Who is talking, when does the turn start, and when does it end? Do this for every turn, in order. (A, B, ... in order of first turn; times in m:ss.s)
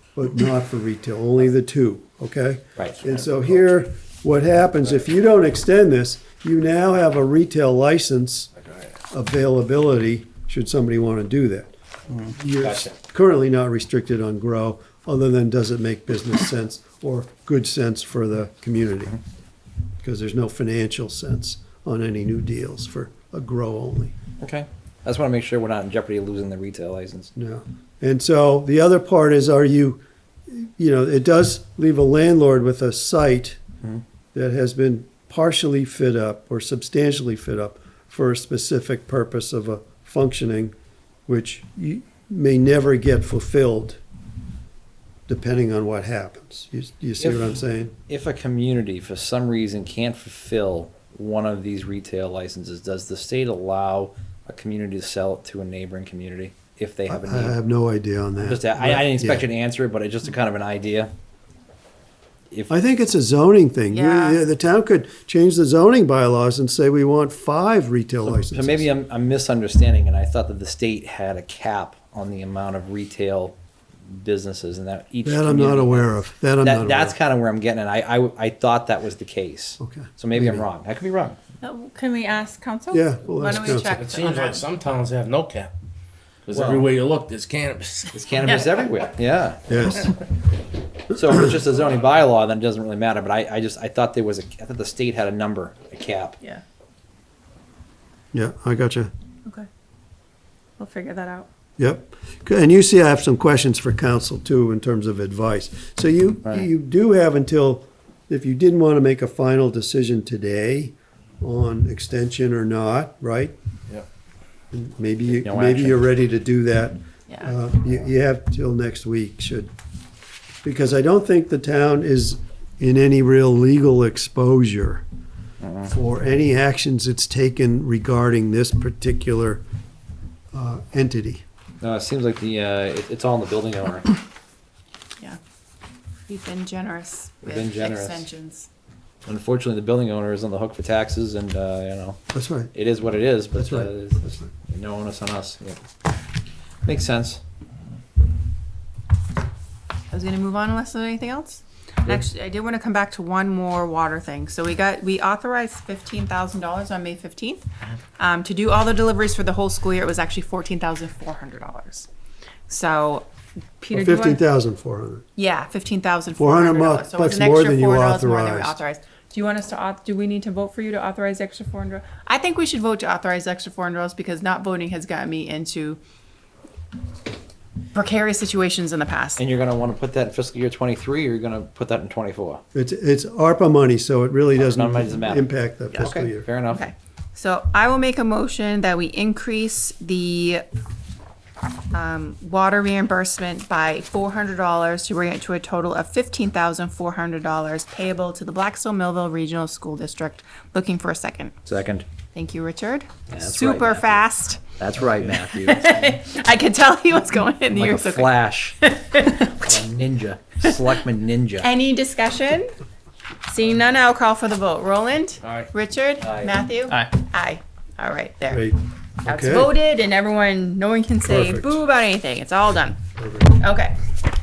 0:00.2-0:08.5 A
0:09.1-0:19.2 A
0:12.6-0:12.9 B
0:20.0-0:24.2 A
0:24.4-0:27.3 B
0:27.4-0:33.6 A
0:34.3-0:40.7 A
0:41.3-0:44.0 A
0:45.3-0:47.9 A
0:47.2-0:57.6 B
0:57.1-0:59.5 A
0:58.4-1:01.1 B
1:02.7-1:08.9 A
1:03.9-1:04.4 C
1:08.2-1:13.6 B
1:14.1-1:21.4 B
1:15.2-1:17.2 A
1:19.8-1:20.6 A
1:21.6-1:24.7 C
1:22.9-1:23.9 A
1:23.6-1:25.7 D
1:26.5-1:28.2 D
1:26.5-1:26.9 B
1:28.1-1:30.1 B
1:28.4-1:28.8 C
1:29.7-1:30.1 A
1:31.1-1:36.4 B
1:38.3-1:39.1 A
1:40.8-1:41.5 C
1:41.8-1:53.6 A
1:54.7-1:59.7 A
1:55.4-1:56.1 B
2:00.6-2:05.0 A
2:05.6-2:05.9 B
2:05.9-2:09.6 A
2:10.5-2:11.4 A
2:11.8-2:14.1 B
2:16.3-2:18.7 C
2:17.4-2:18.2 B
2:19.3-2:22.2 B
2:22.3-2:22.7 A
2:22.7-2:25.8 B
2:23.6-2:24.5 A
2:26.8-2:27.4 B
2:30.1-2:37.7 C
2:38.2-2:42.1 C
2:42.7-2:43.3 C
2:43.8-2:44.4 C
2:43.9-2:45.2 A
2:45.4-2:56.0 C
2:46.4-2:48.8 A
2:57.9-2:59.4 C
2:59.4-3:02.6 B
3:02.7-3:06.5 A
3:04.6-3:06.8 B
3:06.7-3:10.6 C
3:11.9-3:21.6 C
3:21.7-3:22.1 B
3:22.3-3:24.6 C
3:23.3-3:24.2 B
3:24.8-3:25.9 B
3:25.2-3:29.7 C
3:27.7-3:28.8 B
3:29.5-3:31.7 B
3:31.6-3:32.7 C
3:33.5-3:38.7 C
3:35.4-3:35.7 D
3:36.2-3:36.6 B
3:38.5-3:39.8 A
3:39.2-3:44.0 C
3:41.3-3:41.8 A
3:43.2-3:43.5 A